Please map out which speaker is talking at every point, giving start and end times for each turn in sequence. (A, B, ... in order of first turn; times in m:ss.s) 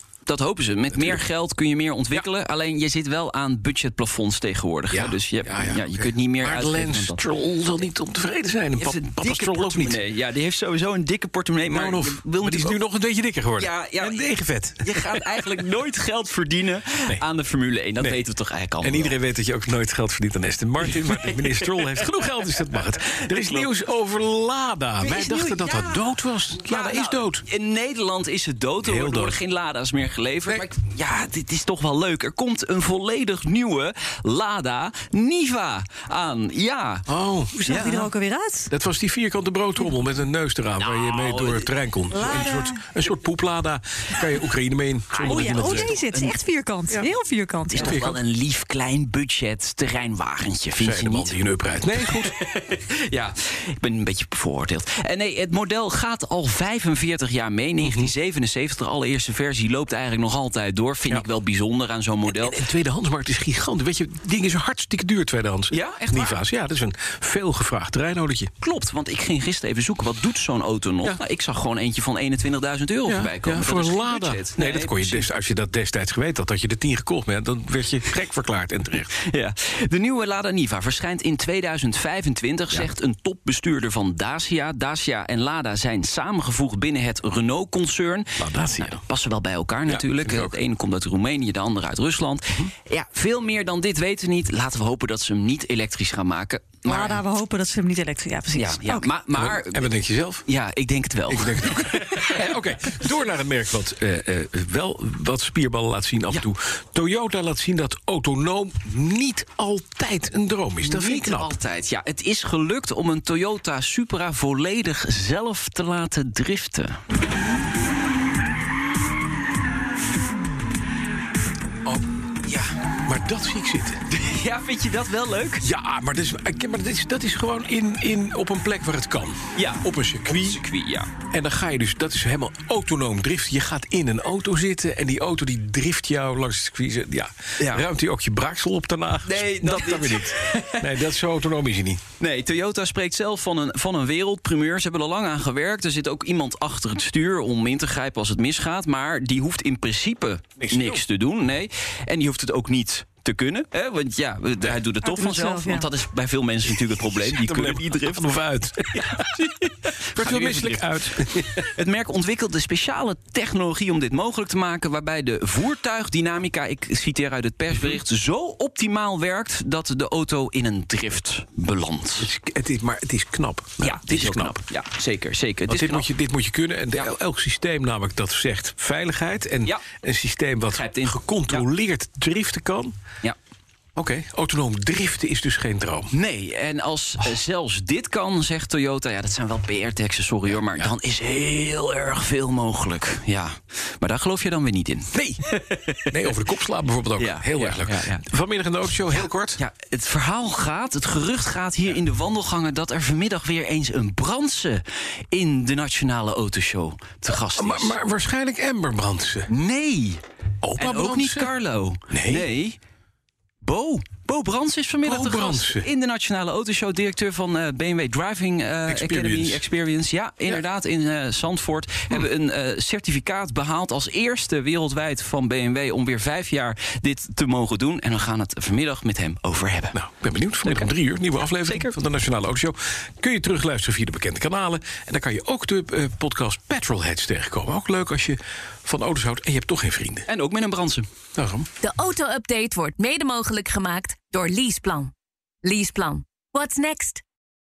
0:00.2-0:07.2 A
0:00.9-0:01.2 B
0:04.9-0:10.0 B
0:08.7-0:12.8 A
0:11.7-0:15.4 B
0:13.6-0:19.2 A
0:18.8-0:27.4 B
0:20.8-0:22.2 A
0:23.1-0:23.7 A
0:25.0-0:26.0 A
0:26.6-0:37.1 A
0:28.8-0:29.4 B
0:37.1-0:38.0 B
0:37.6-0:38.7 C
0:37.7-0:38.0 A
0:38.7-0:45.9 B
0:40.8-0:41.7 A
0:42.1-0:42.9 C
0:45.1-0:46.4 A
0:45.3-0:48.0 C
0:47.7-0:51.3 A
0:47.8-0:48.2 B
0:50.8-0:52.3 B
0:52.0-1:02.6 A
0:57.8-0:58.1 B
1:02.3-1:08.5 B
1:05.7-1:06.4 A
1:08.6-1:15.3 A
1:13.1-1:19.1 B
1:19.2-1:37.2 A
1:28.4-1:29.0 B
1:29.9-1:30.6 B
1:36.8-1:39.1 C
1:38.5-1:39.9 A
1:39.3-1:40.4 B
1:40.5-1:42.6 A
1:41.3-1:51.5 B
1:50.8-1:57.0 A
2:01.9-2:02.8 A
2:03.0-2:04.0 B
2:04.1-2:05.7 A
2:05.6-2:10.6 B
2:09.5-2:11.1 A
2:11.3-2:22.0 B
2:17.6-2:17.8 A
2:19.2-2:21.0 A
2:22.2-2:52.3 A
2:30.6-2:31.0 B
2:35.0-2:35.9 C
2:36.8-2:41.7 B
2:47.7-2:48.0 B
2:52.2-2:54.6 B
2:53.8-2:56.1 A
2:55.7-3:02.9 B
3:00.7-3:01.6 A
3:04.0-3:06.1 B
3:06.1-3:16.4 A
3:10.5-3:10.9 B
3:15.1-3:15.4 B
3:16.1-3:19.6 B
3:17.2-3:18.2 A
3:19.6-3:28.0 A
3:27.5-3:29.5 B
3:29.5-3:30.2 A
3:30.6-3:31.5 B
3:30.8-3:32.8 A
3:32.1-3:32.5 B
3:33.6-3:50.0 A
3:35.0-3:35.9 B
3:38.9-3:39.7 B
3:49.9-4:00.3 B
3:51.6-3:51.9 A
4:00.3-4:01.1 A
4:01.4-4:01.7 B
4:01.8-4:05.1 D
4:05.6-4:07.2 D